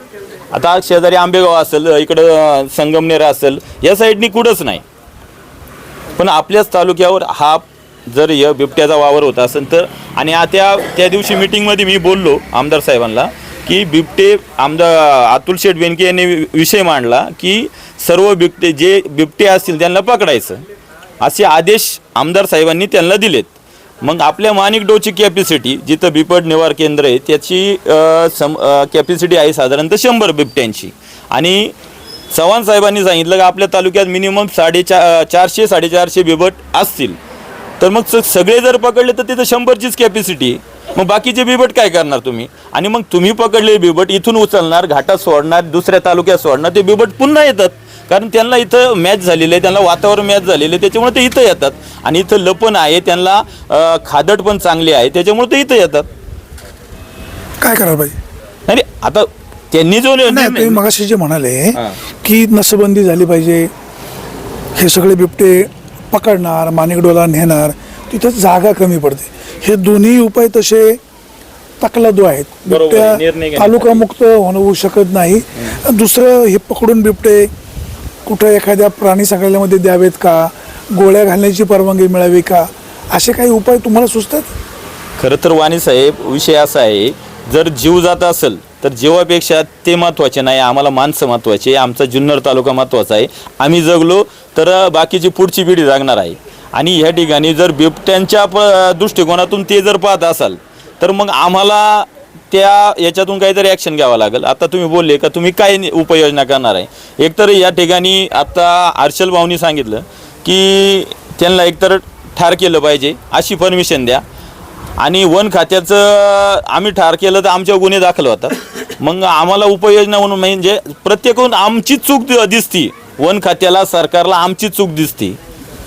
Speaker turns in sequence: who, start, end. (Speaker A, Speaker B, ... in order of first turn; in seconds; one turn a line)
Speaker A: 0.5-4.8
Speaker A: 6.2-20.6
Speaker A: 21.2-31.8
Speaker A: 32.3-37.2
Speaker A: 37.8-56.1
Speaker B: 57.6-58.2
Speaker A: 58.7-60.8
Speaker B: 60.3-63.7
Speaker B: 64.8-71.0
Speaker B: 71.8-77.5
Speaker A: 72.7-74.0
Speaker B: 78.3-84.5
Speaker A: 85.2-114.2
Speaker A: 115.0-125.4